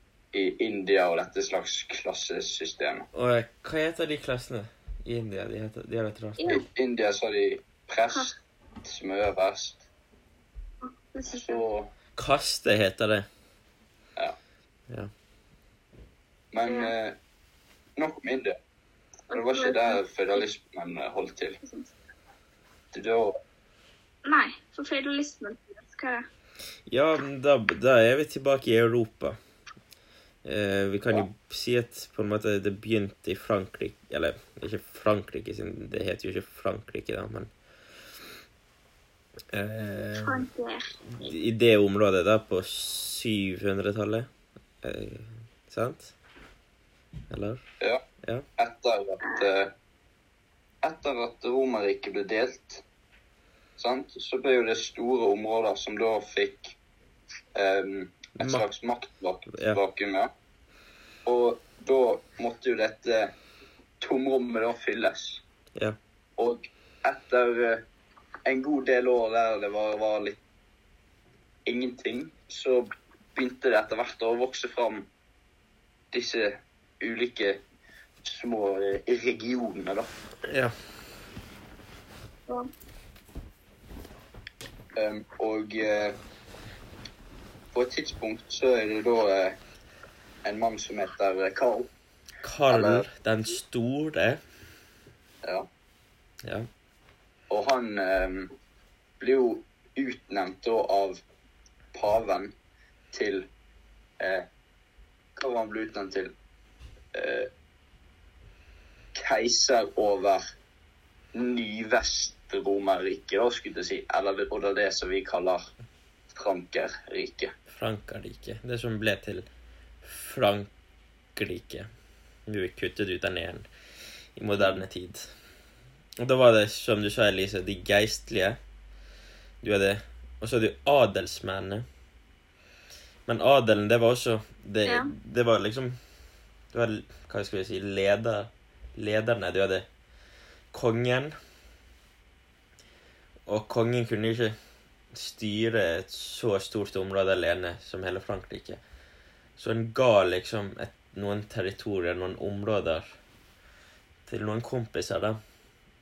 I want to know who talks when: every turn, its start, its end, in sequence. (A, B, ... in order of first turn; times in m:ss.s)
0:00.3-0:03.0 A
0:03.1-0:06.6 B
0:06.4-0:06.6 C
0:06.5-0:08.3 A
0:08.8-0:09.8 A
0:10.8-0:11.6 C
0:11.3-0:11.9 A
0:12.2-0:13.2 B
0:16.5-0:17.2 A
0:16.6-0:16.9 C
0:18.0-0:18.6 A
0:19.3-0:20.4 C
0:19.3-0:21.6 A
0:21.6-0:21.9 C
0:22.9-0:23.3 A
0:24.2-0:26.2 C
0:26.9-0:29.4 B
0:30.4-0:37.5 B
0:39.5-0:40.5 B
0:40.2-0:41.0 C
0:41.1-0:44.3 B
0:44.8-0:46.1 B
0:47.3-0:47.6 B
0:48.6-0:49.7 A
0:49.2-0:49.5 C
0:50.8-0:52.8 A
0:53.8-0:56.8 A
0:57.5-1:00.3 A
0:58.4-0:58.6 B
0:59.5-0:59.8 B
1:01.2-1:03.3 A
1:04.0-1:05.4 A
1:06.4-1:07.8 A
1:08.4-1:10.4 A
1:11.6-1:15.1 A
1:16.1-1:17.6 A
1:18.2-1:20.1 A
1:20.5-1:20.7 B
1:25.0-1:26.2 A
1:27.7-1:29.6 A
1:30.4-1:31.9 A
1:32.4-1:34.4 B
1:32.7-1:33.0 A
1:37.5-1:38.5 A
1:39.2-1:41.2 A
1:41.9-1:42.5 A
1:43.1-1:43.5 A
1:44.2-1:44.5 A
1:45.4-1:46.3 A
1:47.1-1:47.5 A
1:49.2-1:50.4 A
1:51.3-1:55.6 A
1:56.3-1:57.5 A
1:57.7-1:59.5 B
2:00.0-2:00.7 B
2:01.4-2:01.9 B
2:02.5-2:03.7 B
2:04.4-2:05.3 B
2:06.2-2:08.6 B
2:09.6-2:11.8 B
2:13.3-2:16.0 B
2:14.8-2:15.1 C
2:16.7-2:19.9 B
2:20.7-2:21.3 B
2:23.4-2:24.5 B
2:25.1-2:28.8 B
2:29.6-2:33.1 B
2:34.3-2:35.4 B